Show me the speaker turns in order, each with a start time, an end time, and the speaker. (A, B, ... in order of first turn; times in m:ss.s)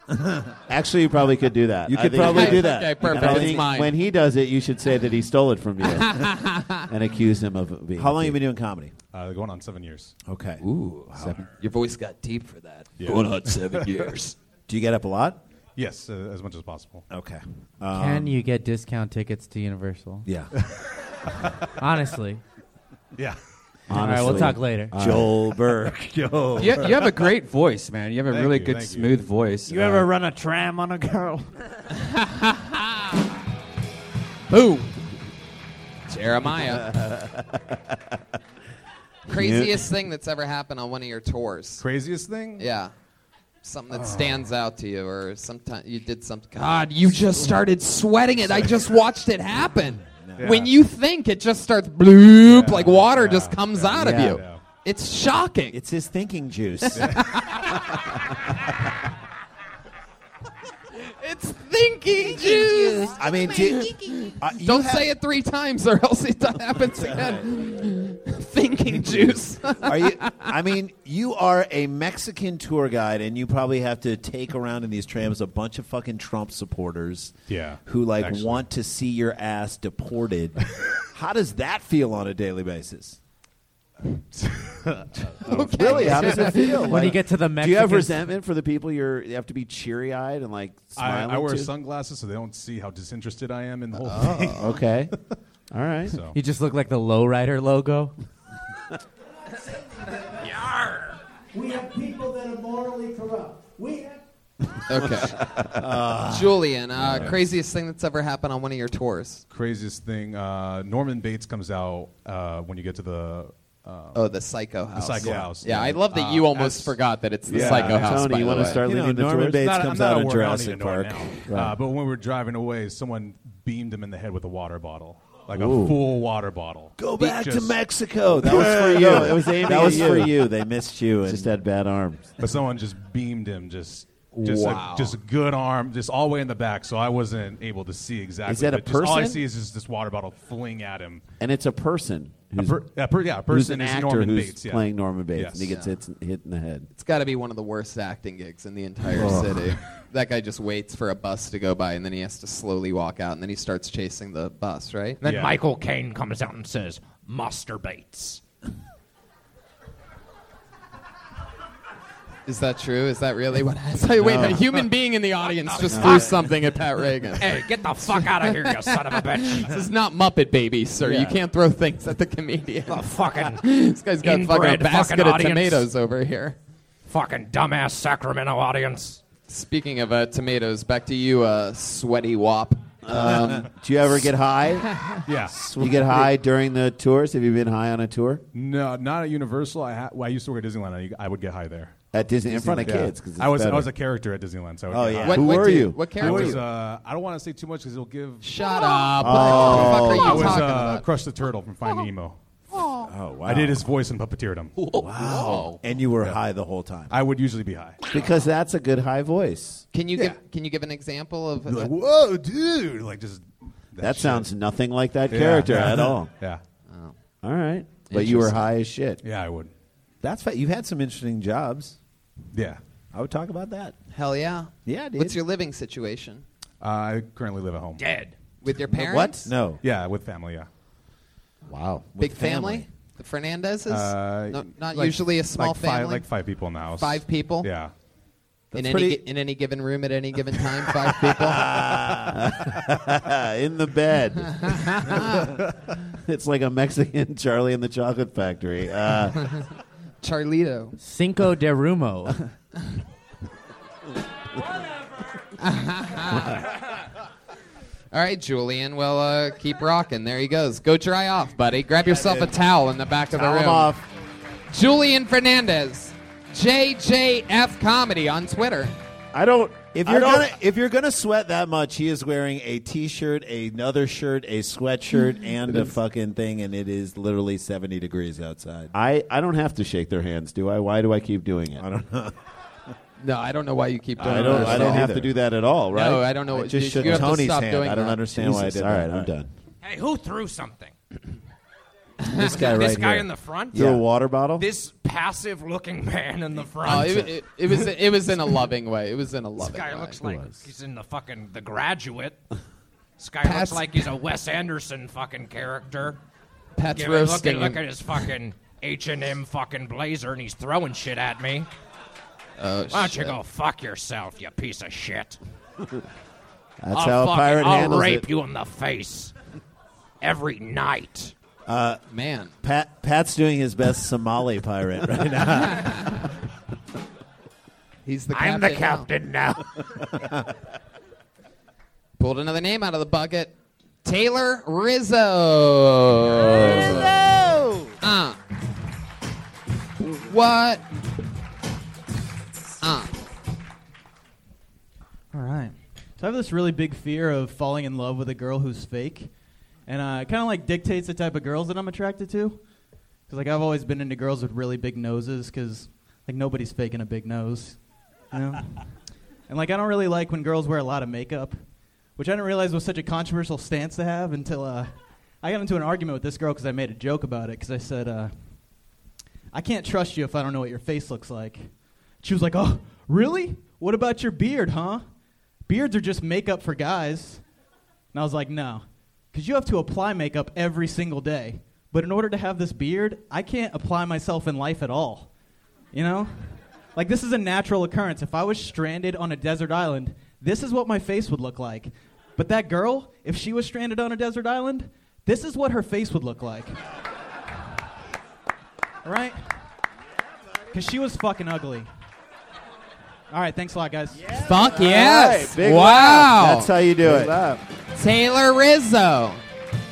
0:00.7-0:06.3 A
0:01.9-0:03.7 B
0:02.2-0:03.9 C
0:05.8-0:06.9 C
0:06.9-0:08.4 A
0:08.0-0:09.0 B
0:09.1-0:10.2 D
0:10.3-0:11.4 B
0:10.6-0:12.9 C
0:13.0-0:14.1 D
0:13.0-0:15.4 B
0:15.8-0:17.1 D
0:17.1-0:18.4 B
0:17.9-0:20.3 E
0:20.2-0:20.5 B
0:21.3-0:21.7 D
0:21.8-0:22.4 E
0:23.9-0:25.3 A
0:24.0-0:25.0 E
0:24.1-0:27.1 B
0:26.6-0:30.1 F
0:28.3-0:29.2 D
0:29.7-0:31.5 G
0:32.0-0:33.0 C
0:34.5-0:34.9 C
0:36.1-0:36.9 C
0:37.0-0:37.4 A
0:39.3-0:39.7 A
0:39.3-0:41.8 C
0:41.8-0:42.7 D
0:42.6-0:42.9 C
0:43.6-0:55.8 C
0:43.9-0:44.5 D
0:50.1-0:50.7 B
0:50.4-0:50.7 D
0:52.4-0:54.6 D
0:53.9-0:54.4 B
0:55.7-0:57.3 B
0:56.9-0:58.0 C
0:57.0-0:57.3 D
1:01.1-1:10.5 C
1:03.0-1:05.1 B
1:06.9-1:07.4 B
1:09.8-1:23.2 B
1:17.5-1:18.7 D
1:24.4-1:26.0 D
1:25.4-1:27.0 C
1:25.5-1:27.1 B
1:25.8-1:31.7 A
1:26.9-1:28.2 E
1:31.0-1:34.8 D
1:34.0-1:34.7 C
1:34.6-1:35.1 A
1:35.7-1:36.2 A
1:36.1-1:36.4 D
1:36.3-1:38.1 E
1:40.4-1:41.2 H
1:41.6-1:44.2 G
1:44.9-1:45.4 C
1:45.8-1:47.4 B
1:46.2-1:49.4 C
1:49.5-1:54.3 D
1:54.1-1:58.8 C
1:54.9-1:57.0 D
1:55.2-1:55.6 B
1:57.5-1:58.6 D
1:57.5-1:59.7 A
1:57.5-1:57.8 B
1:58.4-2:01.7 B
1:59.6-2:07.8 D
2:01.5-2:01.8 A
2:05.6-2:06.0 A
2:05.6-2:05.9 B
2:07.0-2:11.5 B
2:08.4-2:10.5 A
2:08.5-2:10.1 D
2:11.2-2:12.3 A
2:12.4-2:21.2 D
2:14.7-2:15.1 C
2:18.5-2:19.4 A
2:21.4-2:22.9 A
2:22.6-2:25.7 D
2:23.5-2:26.9 A
2:25.7-2:25.9 C
2:26.9-2:35.2 C
2:29.2-2:29.6 B
2:29.2-2:29.5 A
2:35.2-2:38.4 H
2:35.2-2:35.6 D
2:42.5-2:56.6 C
2:45.6-2:46.3 H
2:47.4-2:49.8 H
2:52.9-2:53.6 H
2:54.2-2:55.9 H
2:57.1-2:59.2 H
2:59.5-3:03.6 C
3:03.1-3:05.0 A
3:03.2-3:03.6 B
3:05.3-3:05.8 D
3:05.6-3:08.4 A
3:05.8-3:06.3 B
3:08.5-3:12.0 D
3:12.1-3:13.9 A
3:12.5-3:13.1 B
3:12.8-3:18.5 D
3:14.9-3:16.6 B
3:15.2-3:16.6 C
3:15.2-3:16.6 A
3:18.4-3:21.0 C
3:19.2-3:20.6 A
3:19.4-3:20.1 B
3:19.5-3:22.4 D
3:23.0-3:23.8 B
3:23.5-3:24.7 D
3:24.9-3:27.2 B
3:25.2-3:25.8 C
3:27.1-3:28.0 D
3:28.1-3:29.8 A
3:29.9-3:31.9 C
3:31.7-3:34.5 D
3:34.0-3:36.3 A
3:35.3-3:36.6 D
3:36.9-3:37.1 C
3:37.4-3:39.2 A
3:38.1-3:38.6 C
3:39.2-3:39.7 D
3:40.2-3:42.0 B
3:42.5-3:42.8 D
3:43.1-3:44.0 B
3:44.1-3:46.4 C
3:44.9-3:45.4 B
3:46.8-3:48.0 D
3:48.0-3:48.4 H
3:48.6-3:49.5 C
3:49.0-3:49.8 B
3:49.8-3:50.7 D
3:51.7-3:52.9 B
3:52.2-3:56.3 C
3:53.9-3:57.9 D
3:57.0-3:57.7 C
3:58.7-4:01.8 C
3:58.8-3:59.1 A
4:01.4-4:02.5 B
4:02.2-4:05.5 A
4:04.6-4:05.5 C
4:06.1-4:09.5 A
4:10.2-4:11.0 C
4:11.0-4:12.4 E
4:15.6-4:16.7 C
4:18.1-4:23.9 C
4:23.4-4:23.9 A
4:24.7-4:28.9 C
4:29.4-4:30.5 A
4:29.8-4:38.9 B
4:38.9-4:41.8 A
4:41.8-4:42.4 B
4:43.2-4:45.1 C
4:44.2-4:45.3 B
4:44.2-4:47.7 A
4:45.9-4:48.2 C
4:46.9-4:49.3 B
4:48.3-4:49.5 A
4:49.8-4:50.9 H
4:52.2-4:52.7 C
4:52.4-4:54.0 H
4:52.4-4:54.7 A
4:54.6-4:57.4 H
4:56.8-5:00.2 C
4:59.6-5:02.4 H
5:03.2-5:06.2 H
5:03.4-5:04.1 C
5:06.8-5:08.3 C
5:06.9-5:11.7 H
5:12.6-5:13.4 C
5:12.9-5:15.4 H
5:16.8-5:18.3 A
5:16.9-5:19.3 H
5:20.2-5:21.3 H
5:21.7-5:22.0 B
5:22.1-5:22.5 C
5:22.6-5:26.2 B
5:25.7-5:26.2 C
5:28.0-5:29.1 C
5:28.3-5:29.6 H
5:32.2-5:37.1 C
5:36.6-5:37.9 A
5:38.0-5:38.4 C
5:40.0-5:40.8 C
5:42.8-5:43.1 C
5:45.3-5:49.3 I
5:49.9-5:52.6 I
5:53.3-5:57.8 I
5:58.3-5:58.7 I
5:59.5-6:01.6 I
6:02.2-6:04.9 I
6:05.4-6:08.3 I
6:09.5-6:11.7 I
6:12.2-6:15.0 I
6:15.7-6:17.4 I
6:18.1-6:25.3 I
6:25.9-6:36.8 I
6:39.0-6:39.4 I
6:40.7-6:41.9 I
6:43.3-6:44.3 I
6:44.3-6:46.7 C
6:44.5-6:47.6 A
6:47.0-6:47.4 B
6:48.0-6:49.4 C